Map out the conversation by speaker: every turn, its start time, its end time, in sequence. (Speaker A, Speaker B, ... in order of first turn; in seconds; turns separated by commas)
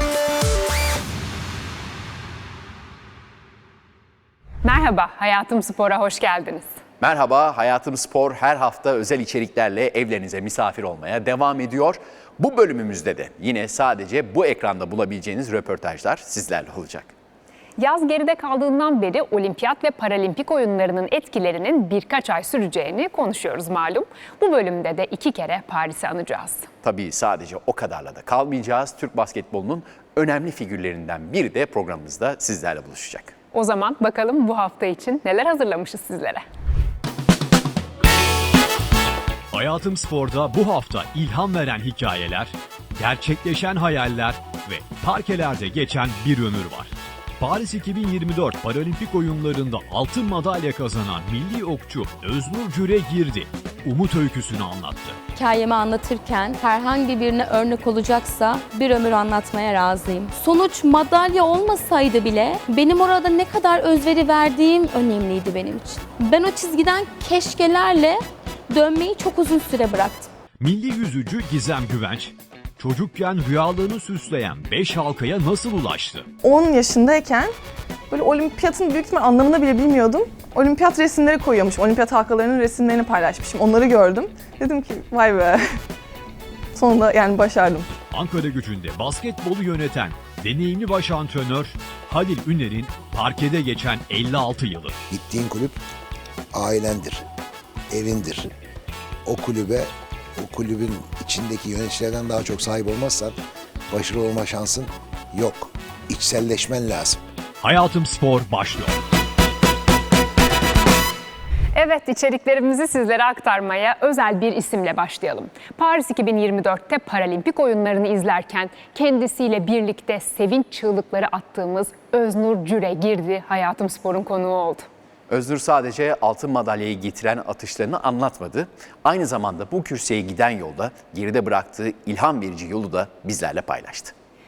Speaker A: 4.6-6.7, Speaker B: 7.0-17.1, Speaker A: 17.8-26.7, Speaker B: 26.8-33.3, Speaker A: 33.5-36.4, Speaker C: 39.5-55.2, Speaker D: 55.3-70.3, Speaker C: 70.6-76.3, Speaker E: 76.4-77.5, Speaker E: 78.1-85.8, Speaker E: 86.8-87.9, Speaker C: 88.1-95.0, Speaker F: 95.1-95.8, Speaker F: 96.5-97.3, Speaker F: 97.9-98.5, Speaker F: 99.2-103.4, Speaker F: 103.9-107.2, Speaker C: 107.6-109.0, Speaker A: 111.7-124.9, Speaker B: 125.3-134.1